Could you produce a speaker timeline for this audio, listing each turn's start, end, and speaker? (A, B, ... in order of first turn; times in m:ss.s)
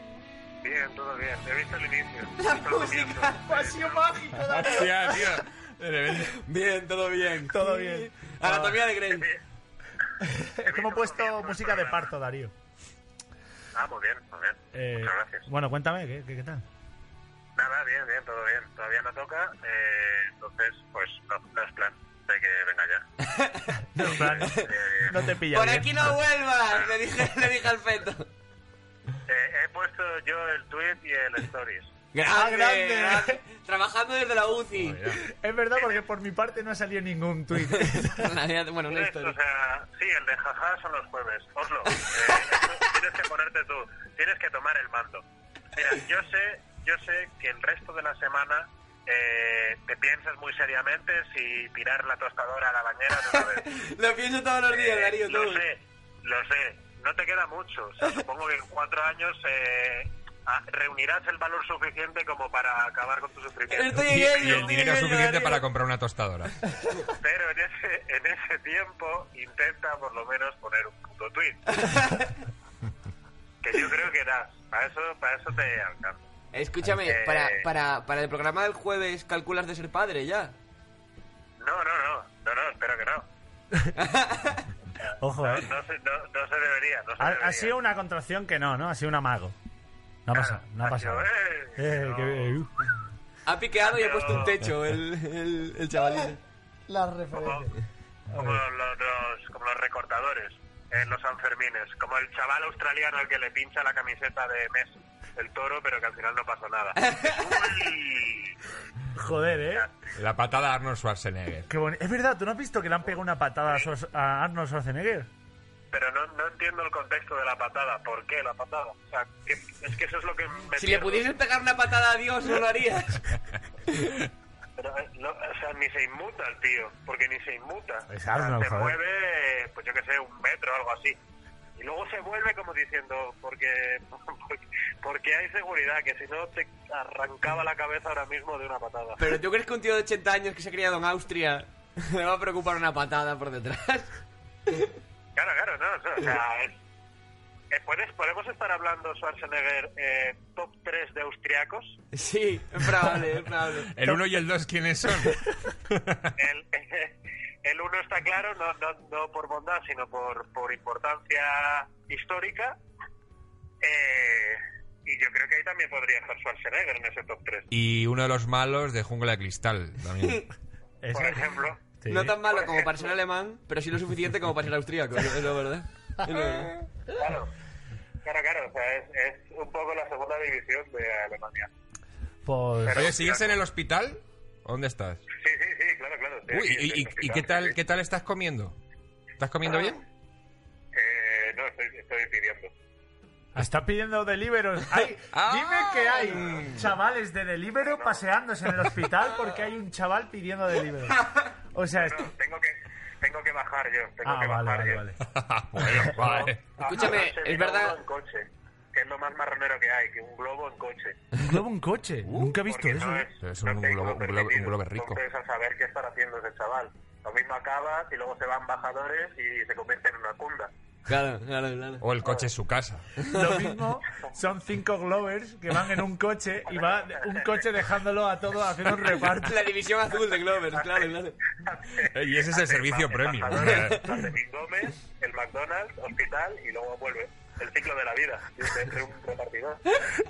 0:00.6-0:04.1 A
0:02.4-0:03.7 B
0:03.4-0:05.2 C
0:04.4-0:06.4 D
0:06.1-0:09.3 B
0:07.5-0:08.8 C
0:09.1-0:09.4 A
0:10.2-0:12.5 C
0:10.6-0:12.1 A
0:13.7-0:15.5 A
0:14.7-0:16.6 C
0:17.6-0:23.0 A
0:23.3-0:23.8 B
0:23.9-0:25.9 C
0:24.0-0:25.1 A
0:24.4-0:24.7 B
0:25.5-0:28.3 B
0:29.3-0:31.9 A
0:32.1-0:35.0 B
0:32.3-0:33.4 C
0:34.7-0:35.2 D
0:35.1-0:38.3 C
0:37.7-0:39.4 B
0:38.8-0:53.7 A
0:41.9-0:42.8 B
0:53.3-0:55.7 B
0:54.7-1:04.8 A
1:03.7-1:05.6 B
1:04.0-1:06.6 D
1:07.2-1:11.6 A
1:11.7-1:12.3 B
1:13.6-1:16.2 A
1:16.5-1:20.5 B
1:17.0-1:17.6 A
1:21.6-1:23.2 A
1:24.0-1:24.7 B
1:25.2-1:25.7 C
1:25.4-1:27.7 A
1:27.2-1:29.5 C
1:30.2-1:32.7 C
1:30.3-1:32.5 A
1:33.4-1:36.4 B
1:33.8-1:34.6 A
1:36.9-1:37.7 C
1:37.3-1:37.7 A
1:38.3-1:38.6 C
1:38.3-1:48.5 A
1:47.0-1:47.6 B
1:49.1-1:49.8 C
1:50.2-1:51.7 D
1:51.7-1:55.3 C
1:55.9-2:01.3 A
2:00.7-2:03.3 B
2:04.8-2:11.2 A
2:08.1-2:09.0 C
2:11.8-2:19.2 A
2:19.2-2:24.1 B
2:25.4-2:26.8 A
2:27.7-2:32.0 A
2:32.1-2:33.9 B
2:33.9-2:36.3 D
2:36.4-2:42.8 A
2:43.8-2:47.7 A
2:47.7-2:50.4 D
2:51.0-2:52.4 C
2:51.1-2:51.8 A
2:52.1-2:56.7 B
2:52.4-2:53.2 A
2:57.1-2:57.5 A
2:58.2-3:01.7 A
3:02.4-3:03.1 C
3:02.8-3:03.6 A
3:02.9-3:05.2 D
3:05.3-3:07.8 A
3:06.5-3:08.8 D
3:09.4-3:10.0 D
3:09.6-3:10.0 A
3:10.9-3:12.7 A
3:13.6-3:22.3 C
3:15.3-3:16.7 D
3:17.8-3:18.2 A
3:19.3-3:19.6 A
3:21.9-3:25.0 A
3:24.2-3:25.2 C
3:25.3-3:26.6 D
3:25.8-3:26.5 C
3:26.8-3:31.2 A
3:26.8-3:28.0 B
3:31.4-3:33.2 C
3:32.2-3:32.6 D
3:32.5-3:40.7 A
3:33.4-3:35.2 D
3:41.1-3:42.0 B
3:42.0-3:43.1 D
3:42.2-3:42.5 A
3:43.2-3:43.7 B
3:43.3-3:49.5 C
3:46.7-3:47.6 A
3:49.0-3:51.4 B
3:50.7-3:51.1 A
3:51.6-3:59.8 A
3:52.1-3:54.1 D